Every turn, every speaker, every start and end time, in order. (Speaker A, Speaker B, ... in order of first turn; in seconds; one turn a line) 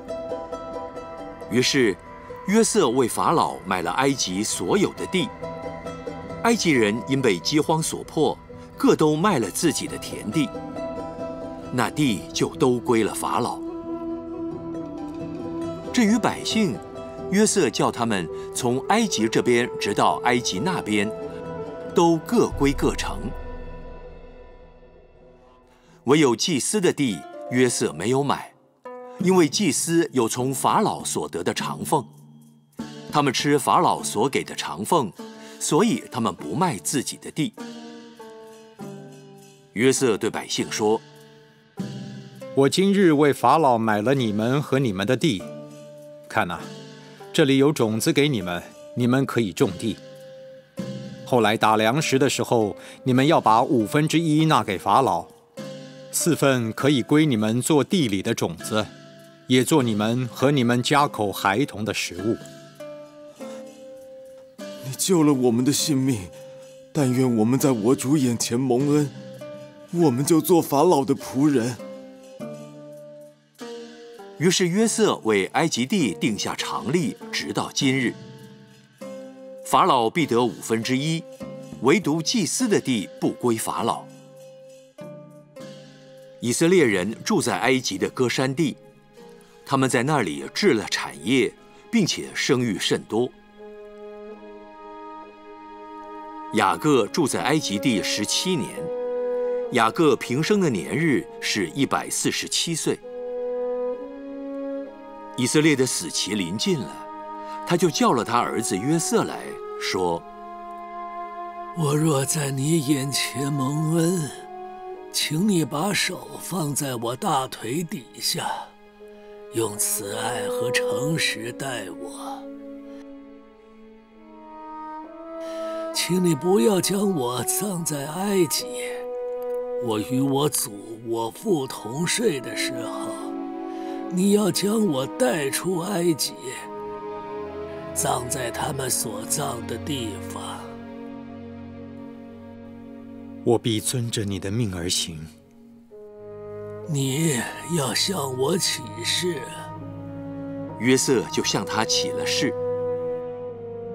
Speaker A: 1.5-5.3
Speaker A: 6.4-10.5
Speaker A: 11.7-13.6
Speaker A: 15.9-21.1
Speaker A: 21.9-23.3
Speaker A: 26.0-28.5
Speaker A: 29.2-32.1
Speaker A: 33.1-37.5
Speaker A: 39.7-41.0
Speaker B: 42.5-45.5
Speaker B: 46.3-46.7
Speaker B: 47.3-50.0
Speaker B: 51.2-55.3
Speaker B: 56.1-58.9
Speaker B: 59.5-62.4
Speaker C: 64.8-66.3
Speaker C: 66.9-69.1
Speaker C: 69.9-71.8
Speaker A: 74.4-78.2
Speaker A: 79.6-81.2
Speaker A: 81.8-84.1
Speaker A: 86.4-88.8
Speaker A: 89.7-93.3
Speaker A: 96.5-98.9
Speaker A: 99.7-103.0
Speaker A: 105.3-107.1
Speaker A: 107.7-110.2
Speaker D: 111.8-114.4
Speaker D: 115.1-118.7
Speaker D: 119.5-122.4
Speaker D: 125.9-129.0
Speaker D: 129.8-133.3
Speaker D: 134.1-136.7
Speaker D: 137.9-140.7
Speaker B: 143.4-145.3
Speaker D: 146.9-149.5
Speaker A: 150.8-152.6